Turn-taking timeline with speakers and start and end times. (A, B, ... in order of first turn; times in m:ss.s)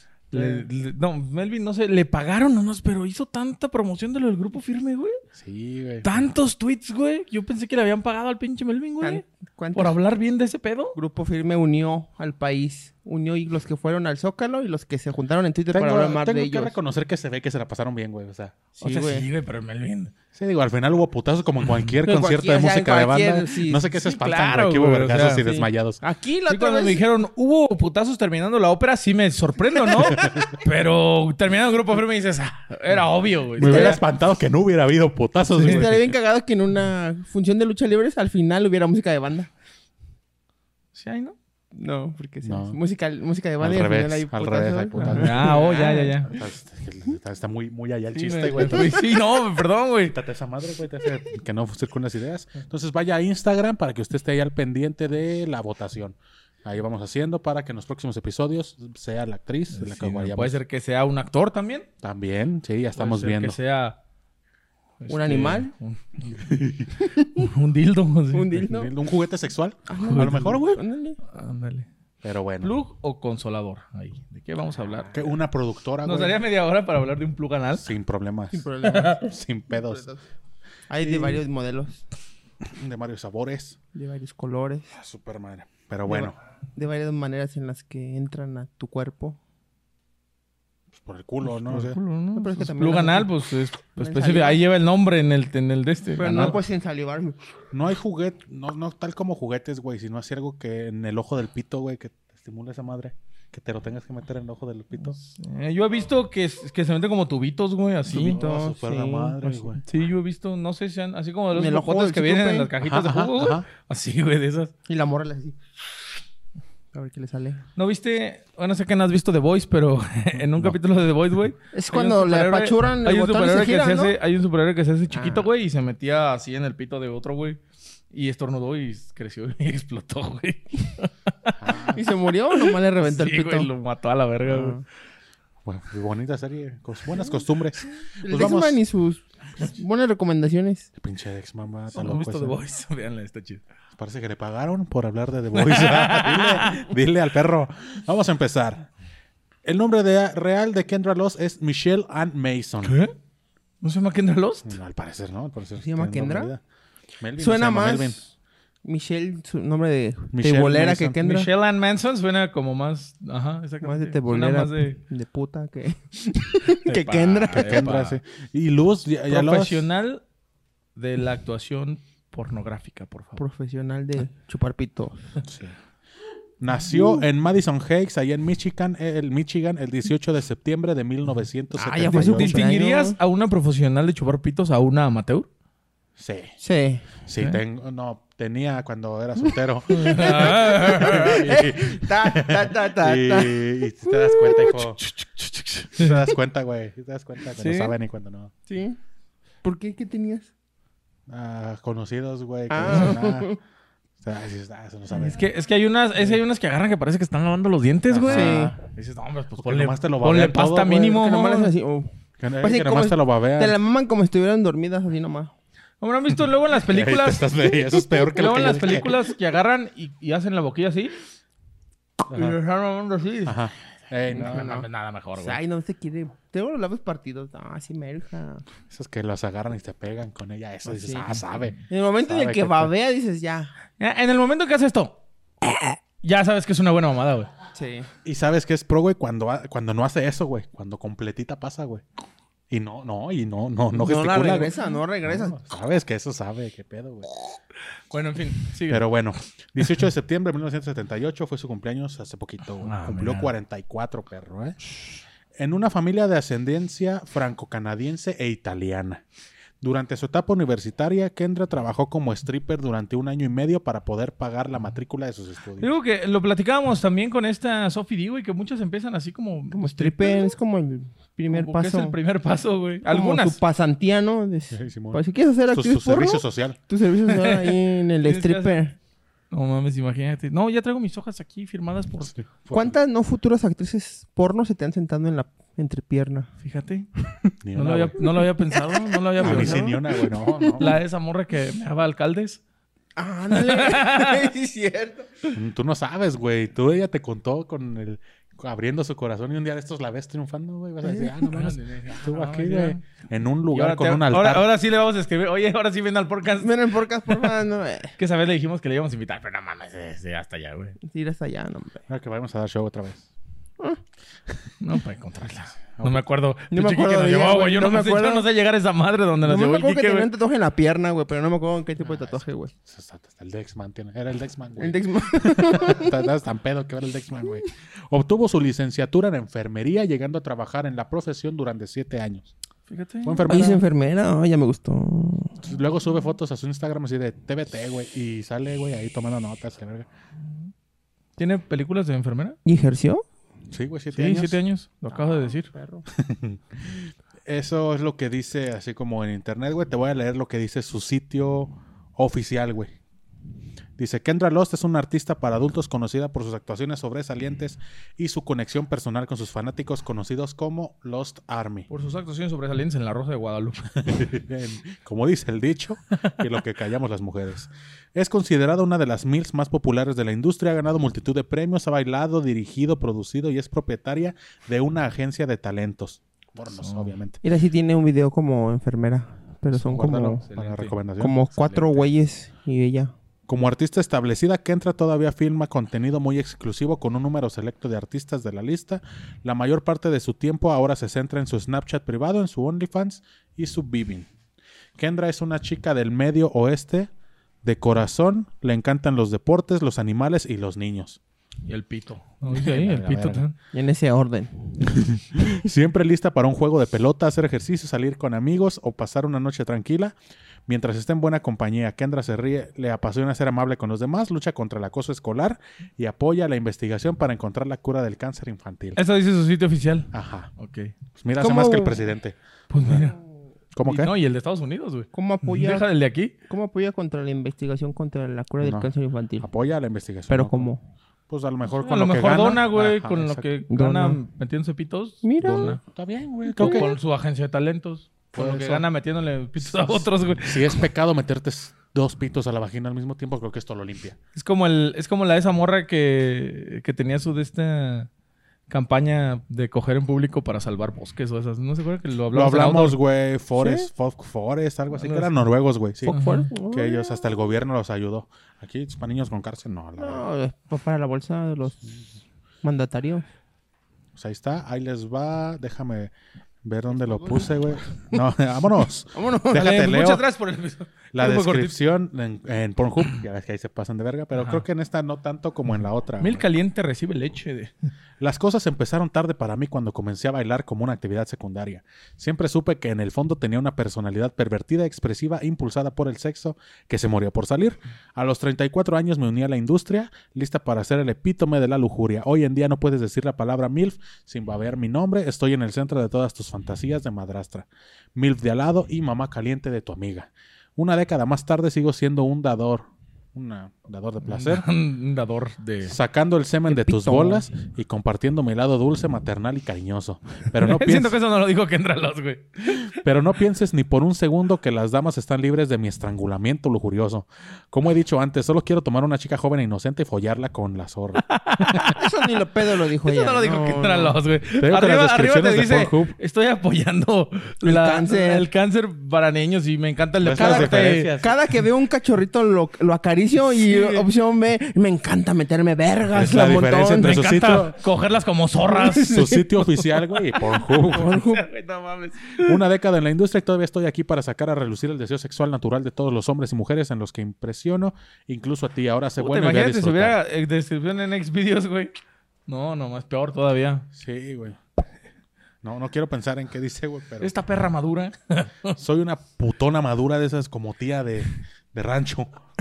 0:00.3-0:05.2 A
0:00.3-0:00.7 B
0:05.4-0:06.3 C
0:06.0-0:09.2 A
0:09.0-0:10.0 B
0:09.8-0:11.0 A
0:11.0-0:16.8 B
0:15.7-0:18.9 C
0:18.8-0:19.3 B
0:18.8-0:20.1 A
0:20.3-0:26.0 C
0:22.0-0:23.9 B
0:23.9-0:25.5 A
0:25.4-0:27.0 B
0:26.5-0:34.0 A
0:29.8-0:30.5 B
0:30.1-0:30.5 C
0:33.6-0:36.1 C
0:33.6-0:34.0 B
0:35.6-0:39.5 B
0:35.6-0:35.9 A
0:40.9-0:41.4 A
0:41.8-0:46.2 B
0:42.4-0:42.8 C
0:43.6-0:49.1 C
0:45.0-0:46.3 A
0:48.1-0:50.2 A
0:50.0-1:00.6 C
0:59.7-1:01.9 A
1:02.0-1:03.6 C
1:03.0-1:04.0 A
1:05.0-1:06.7 A
1:05.1-1:05.7 B
1:06.3-1:06.9 C
1:07.0-1:07.5 B
1:07.4-1:08.7 A
1:08.3-1:08.9 B
1:08.7-1:10.8 C
1:09.9-1:11.2 B
1:10.1-1:10.6 A
1:11.3-1:11.9 A
1:12.2-1:12.8 C
1:12.6-1:15.2 A
1:15.1-1:16.4 C
1:16.0-1:17.9 A
1:17.8-1:20.1 C
1:18.5-1:20.2 B
1:20.9-1:22.0 B
1:21.0-1:21.4 C
1:22.6-1:23.8 C
1:23.9-1:24.9 B
1:24.9-1:26.4 C
1:26.1-1:29.4 B
1:30.9-1:32.0 C
1:31.5-1:36.6 A
1:32.4-1:33.4 B
1:34.0-1:34.6 B
1:36.2-1:37.4 B
1:37.7-1:45.2 C
1:45.2-1:48.4 A
1:48.1-1:49.8 C
1:48.2-1:49.8 B
1:49.8-1:54.7 A
1:51.5-1:52.7 B
1:52.8-1:53.7 C
1:54.9-1:55.6 B
1:56.9-1:57.6 B
1:57.8-2:07.6 A
2:00.4-2:00.8 C
2:01.7-2:04.2 B
2:05.1-2:05.5 B
2:08.1-2:11.6 A
2:11.6-2:12.1 C
2:11.9-2:13.7 B
2:12.5-2:14.8 A
2:14.5-2:14.8 B
2:15.6-2:18.8 C
2:18.2-2:20.9 B
2:21.0-2:22.6 C
2:21.9-2:23.6 A
2:24.0-2:28.9 C
2:25.5-2:26.9 A
2:29.6-2:33.0 C
2:32.8-2:33.1 A
2:33.8-2:34.7 A
2:34.6-2:36.6 C
2:35.8-2:36.5 B
2:37.2-2:38.3 C
2:37.4-2:38.2 B
2:38.8-2:41.5 B
2:40.3-2:41.2 C
2:41.2-2:45.0 A
2:43.8-2:47.9 B
2:46.9-2:48.2 A
2:47.5-2:49.9 C
2:49.3-2:50.2 A
2:51.0-2:53.4 A
2:53.4-2:55.4 B
2:55.4-2:55.8 C
2:56.6-3:02.6 C
3:01.8-3:03.2 B
3:02.1-3:05.5 A
3:06.2-3:06.5 C
3:06.6-3:07.1 B
3:07.3-3:15.0 C
3:09.9-3:11.4 A
3:09.9-3:14.8 B
3:15.0-3:16.2 A
3:15.9-3:18.5 C
3:17.6-3:18.0 A
3:18.7-3:19.0 B
3:19.6-3:20.5 B
3:21.3-3:23.5 C
3:22.7-3:23.6 B
3:24.2-3:25.4 C
3:25.1-3:31.7 A
3:28.1-3:28.8 C
3:28.3-3:28.8 B
3:29.6-3:31.1 C
3:31.0-3:32.1 B
3:32.4-3:33.8 C
3:32.6-3:35.5 B
3:36.0-3:37.6 A
3:36.9-3:39.1 C
3:38.3-3:41.2 A
3:42.3-3:42.6 C
3:42.3-3:43.6 A
3:43.4-3:44.8 C
3:44.3-3:48.6 B
3:44.3-3:45.6 A
3:48.9-3:52.9 C
3:50.9-3:51.2 B
3:51.9-3:53.7 B
3:54.0-3:57.5 A
3:57.7-3:58.1 B
3:58.2-4:02.0 C
4:02.7-4:07.3 C
4:03.9-4:05.7 B
4:08.1-4:09.1 A
4:08.9-4:14.8 C
4:12.8-4:13.5 A
4:15.6-4:19.2 C
4:19.8-4:25.9 C
4:25.8-4:30.5 A
4:29.7-4:32.2 B
4:31.5-4:33.6 A
4:33.1-4:39.0 B
4:34.7-4:36.8 C
4:37.2-4:38.8 A
4:39.5-4:42.3 A
4:42.3-4:42.9 C
4:42.7-4:46.5 B
4:46.6-4:47.1 A
4:47.6-4:48.2 C
4:47.8-4:50.0 A
4:48.2-4:50.9 B
4:49.4-4:50.9 C
4:50.8-4:52.6 A
4:53.2-4:55.6 B
4:53.5-4:54.5 A
4:55.5-5:04.7 C
5:01.4-5:03.0 A
5:03.7-5:07.6 A
5:06.6-5:08.1 B
5:08.2-5:11.0 A
5:11.0-5:12.0 B
5:12.1-5:13.3 C
5:14.8-5:20.3 A
5:16.0-5:16.2 C
5:16.7-5:18.5 B
5:19.4-5:22.7 B
5:22.0-5:32.5 C
5:24.8-5:26.2 B
5:32.9-5:33.6 A
5:33.2-5:33.8 C
5:33.5-5:35.6 B
5:35.6-5:40.1 C
5:41.4-5:42.6 A
5:42.6-5:43.2 B
5:43.7-5:44.6 C
5:44.1-5:45.7 A
5:45.1-5:46.0 B
5:46.1-5:53.0 C
5:54.0-6:01.9 C
6:01.9-6:04.0 A
6:04.0-6:17.4 C
6:16.8-6:17.1 A
6:17.4-6:20.4 B
6:19.8-6:21.4 C
6:20.5-6:21.0 A
6:21.2-6:23.1 B
6:21.5-6:22.0 A
6:23.5-6:34.3 C
6:35.0-6:37.1 C
6:37.6-6:41.2 C
6:41.7-6:43.5 A
6:42.4-6:43.5 C
6:43.7-6:44.7 B
6:44.9-6:50.2 C
6:50.7-6:59.0 C
6:59.0-7:00.9 A
7:00.1-7:00.5 C
7:01.2-7:03.1 C
7:01.4-7:02.1 B
7:02.7-7:03.2 A
7:03.8-7:04.1 C
7:03.8-7:06.3 A
7:05.1-7:05.9 B
7:06.5-7:09.5 B
7:08.6-7:10.7 C
7:10.3-7:10.8 B
7:11.3-7:13.5 C
7:11.8-7:15.8 A
7:13.7-7:14.2 B
7:15.2-7:15.8 B
7:15.4-7:16.9 C
7:16.5-7:16.9 B
7:16.6-7:20.8 A
7:18.3-7:18.8 C
7:19.6-7:24.2 C
7:24.4-7:28.1 A
7:28.7-7:33.0 A
7:32.3-7:40.3 C
7:33.6-7:33.9 B
7:35.0-7:35.3 A
7:36.0-7:37.3 B
7:36.1-7:36.5 A
7:40.0-7:42.0 B
7:42.6-7:43.2 B
7:44.2-7:46.1 C
7:46.6-7:50.3 C
7:47.0-7:47.5 B
7:49.1-7:49.9 B
7:49.5-7:51.8 A
7:51.1-7:56.4 C
7:54.4-7:54.6 A
7:56.2-7:57.7 A
7:58.2-8:24.7 C
8:24.2-8:26.0 A
8:25.8-8:31.2 C
8:26.7-8:27.5 B
8:30.6-8:33.0 A
8:32.9-8:41.8 C
8:41.3-8:51.1 A
8:41.8-8:44.2 B
8:44.6-8:46.2 C
8:47.6-8:48.5 B
8:50.2-8:51.4 C
8:50.3-8:57.2 B
8:53.5-8:54.1 A
8:56.1-8:57.8 C
8:56.9-8:59.2 A
8:58.7-8:59.5 B
8:59.0-9:01.2 C
9:00.8-9:02.5 A
9:00.8-9:01.5 B
9:02.4-9:10.2 C
9:09.2-9:11.9 A
9:12.5-9:13.9 A
9:14.0-9:14.6 C
9:15.6-9:17.3 C
9:17.2-9:18.8 A
9:18.8-9:22.4 C